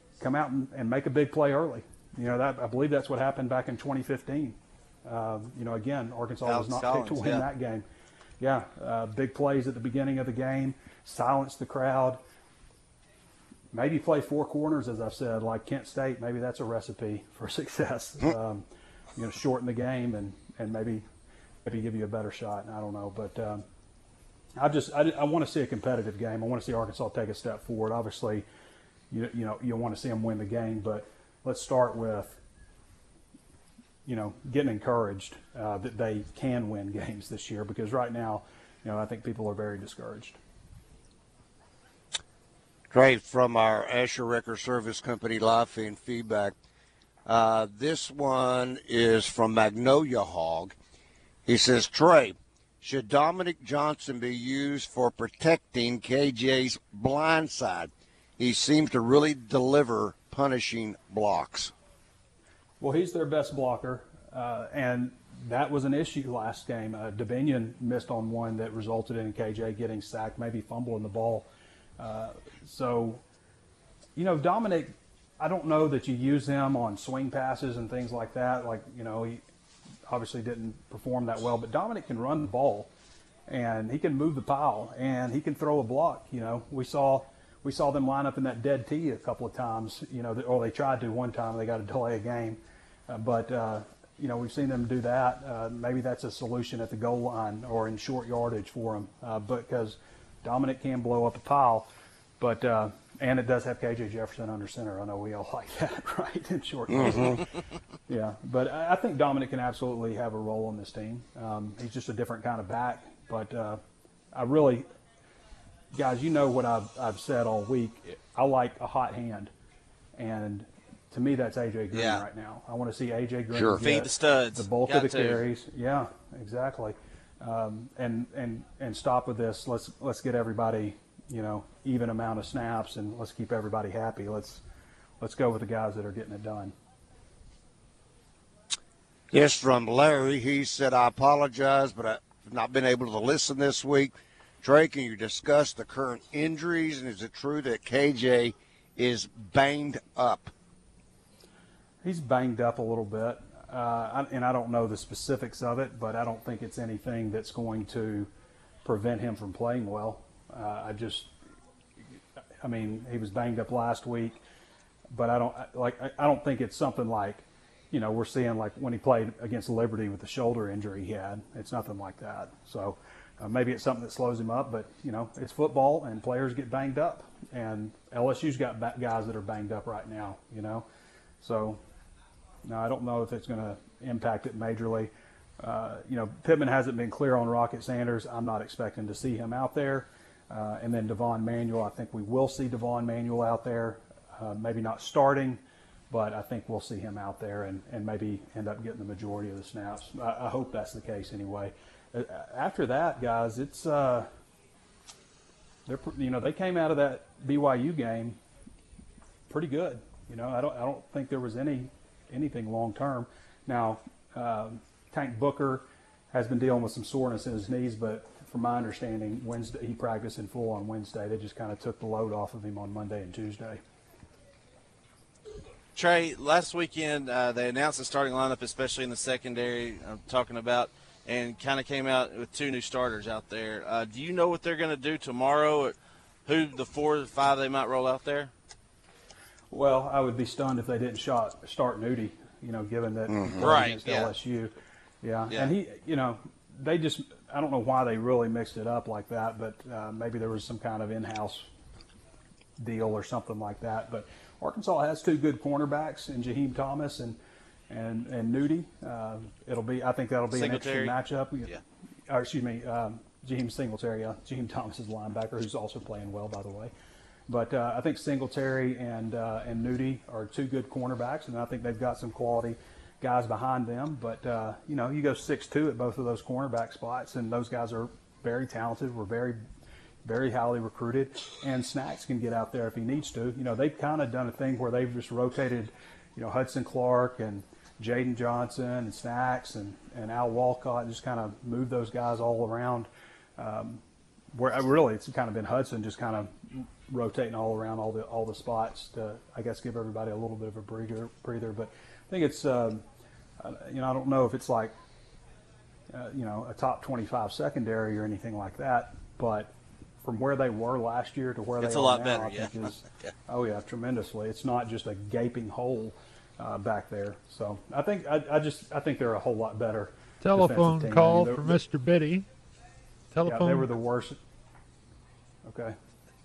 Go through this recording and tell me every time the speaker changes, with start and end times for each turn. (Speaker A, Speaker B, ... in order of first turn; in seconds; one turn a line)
Speaker A: 0.2-7.8
Speaker B: 6.5-7.5
Speaker A: 8.4-12.2
Speaker A: 13.7-21.1
Speaker A: 21.6-23.6
Speaker A: 24.6-28.4
Speaker A: 29.1-32.4
Speaker A: 34.0-40.4
Speaker C: 42.9-46.5
Speaker C: 47.3-50.8
Speaker C: 51.5-61.7
Speaker A: 62.8-71.5
Speaker A: 72.0-73.2
Speaker A: 74.2-79.4
Speaker A: 80.1-82.9
Speaker A: 83.5-107.5
Speaker C: 106.9-107.4
Speaker A: 108.1-113.8
Speaker A: 114.3-114.8
Speaker A: 115.9-119.5
Speaker A: 120.2-134.6
Speaker B: 121.9-122.2
Speaker C: 123.5-123.8
Speaker B: 123.8-125.5
Speaker A: 135.2-136.7
Speaker C: 139.3-150.5
Speaker A: 152.0-158.3
Speaker A: 158.8-161.3
Speaker A: 162.6-164.4
Speaker A: 165.1-180.8
Speaker A: 181.4-181.8
Speaker A: 182.7-204.3
Speaker A: 205.9-208.4
Speaker A: 209.5-223.8
Speaker B: 225.9-235.9
Speaker B: 236.5-238.5
Speaker A: 239.7-251.7
Speaker C: 243.3-243.7
Speaker B: 243.6-244.3
Speaker A: 252.8-261.7
Speaker B: 260.5-261.8
Speaker A: 262.3-266.9
Speaker A: 267.5-279.6
Speaker A: 280.2-294.0
Speaker A: 294.5-303.0
Speaker A: 303.6-304.9
Speaker A: 306.1-321.8
Speaker B: 311.8-313.3
Speaker D: 320.4-322.5
Speaker D: 323.3-323.9
Speaker A: 323.4-324.4
Speaker A: 325.6-325.9